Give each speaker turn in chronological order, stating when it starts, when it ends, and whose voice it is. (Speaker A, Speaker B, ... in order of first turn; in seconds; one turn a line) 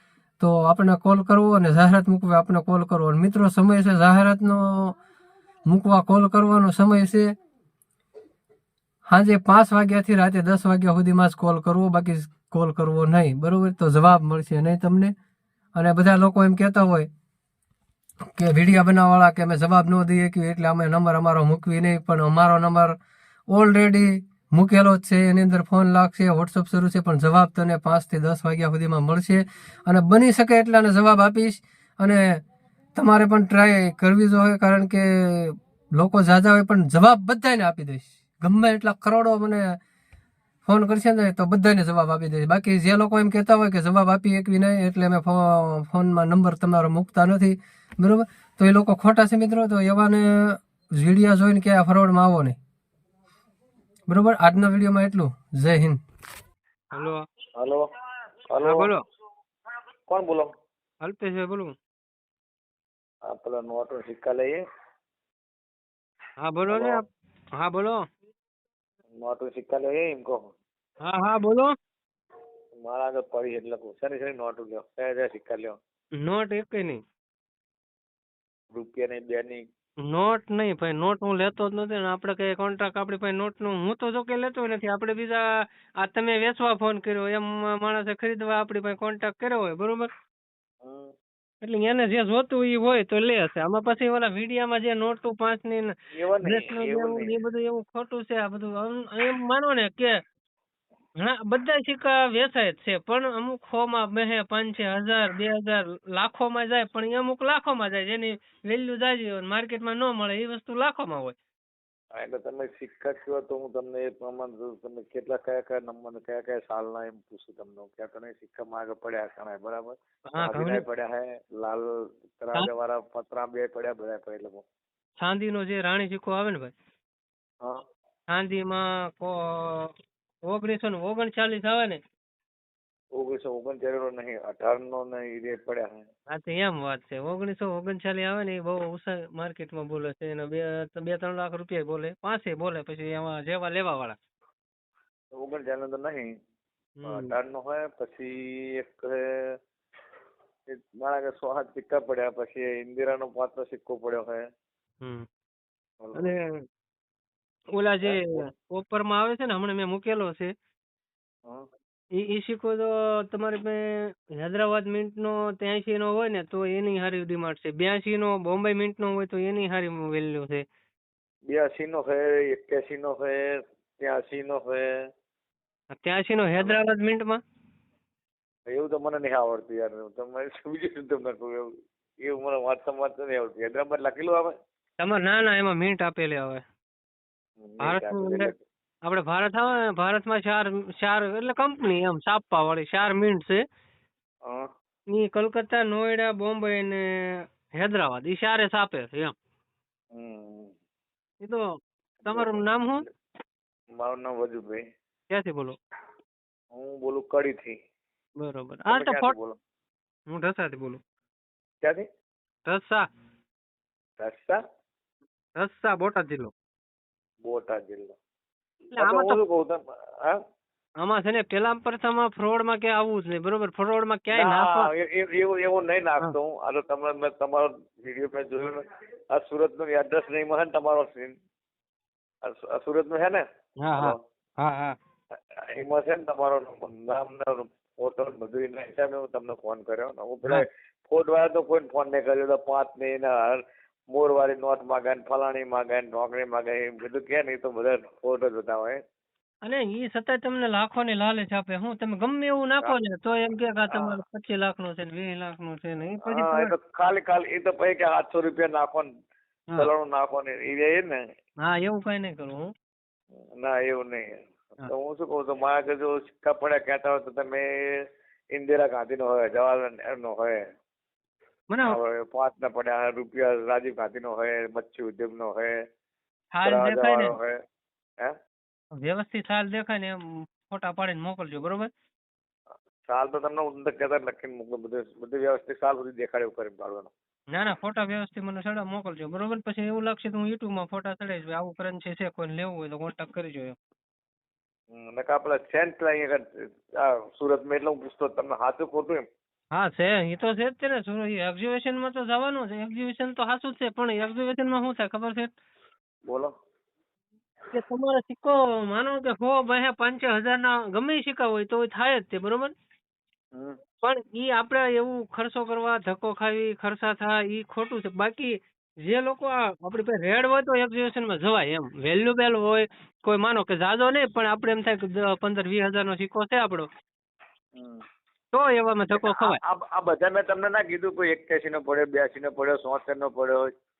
Speaker A: 0.4-5.0
Speaker A: 5.7-7.3
Speaker A: 9.1-15.1
Speaker A: 15.7-17.1
Speaker A: 18.4-22.9
Speaker A: 23.5-32.4
Speaker A: 32.9-39.8
Speaker A: 40.6-52.6
Speaker A: 54.1-56.0
Speaker B: 56.9-57.2
Speaker C: 57.5-57.8
Speaker C: 58.5-58.9
Speaker B: 58.6-59.0
Speaker C: 60.1-60.5
Speaker B: 61.0-61.7
Speaker C: 63.3-64.6
Speaker B: 66.4-67.0
Speaker C: 66.7-67.0
Speaker B: 67.6-68.0
Speaker C: 69.2-70.5
Speaker B: 71.0-71.7
Speaker C: 72.8-75.8
Speaker B: 76.2-77.0
Speaker C: 78.7-79.6
Speaker B: 80.1-85.4
Speaker B: 86.0-90.1
Speaker C: 90.8-91.1
Speaker B: 91.6-100.2
Speaker C: 96.1-97.3
Speaker B: 101.2-111.3
Speaker C: 112.1-124.6
Speaker B: 120.3-120.8
Speaker B: 125.2-126.7
Speaker B: 128.3-129.9
Speaker B: 130.5-132.0
Speaker C: 133.1-136.1
Speaker B: 136.3-144.2
Speaker C: 145.3-146.3
Speaker B: 147.0-147.3
Speaker C: 147.1-149.6
Speaker C: 150.7-154.4
Speaker C: 156.0-156.3
Speaker B: 156.1-156.6
Speaker B: 157.7-160.5
Speaker C: 158.0-158.5
Speaker B: 162.2-170.6
Speaker C: 171.5-174.9
Speaker B: 175.9-177.4
Speaker C: 178.7-181.7
Speaker C: 182.2-184.5
Speaker B: 185.0-186.6
Speaker C: 187.6-188.6
Speaker B: 187.8-188.5
Speaker B: 189.0-193.6
Speaker B: 195.1-199.3
Speaker C: 200.1-200.7
Speaker B: 202.2-203.0
Speaker C: 202.2-202.6
Speaker C: 204.0-204.8
Speaker B: 205.3-205.8
Speaker C: 206.7-207.8
Speaker B: 208.4-209.3
Speaker C: 208.9-209.6
Speaker B: 210.3-211.0
Speaker B: 212.7-213.0
Speaker C: 214.2-214.6
Speaker B: 215.6-216.5
Speaker C: 217.4-218.1
Speaker B: 218.9-219.4
Speaker C: 218.9-220.4
Speaker B: 221.0-224.9
Speaker C: 224.3-228.8
Speaker C: 229.3-231.3
Speaker C: 232.4-233.4
Speaker B: 233.8-235.0
Speaker C: 235.6-249.0
Speaker B: 249.6-256.7
Speaker C: 253.9-254.2
Speaker C: 256.2-259.1
Speaker C: 259.8-261.2
Speaker B: 261.6-262.7
Speaker C: 263.6-270.6
Speaker B: 271.7-272.0
Speaker C: 271.8-275.8
Speaker B: 276.5-277.3
Speaker C: 276.6-277.6
Speaker B: 279.0-281.9
Speaker C: 283.0-287.1
Speaker B: 287.5-293.8
Speaker C: 294.9-299.2
Speaker B: 299.7-305.5
Speaker C: 306.2-306.5
Speaker B: 307.7-312.7
Speaker C: 313.5-313.8
Speaker B: 314.0-326.9
Speaker C: 327.7-328.0
Speaker B: 328.5-329.6
Speaker C: 329.1-333.6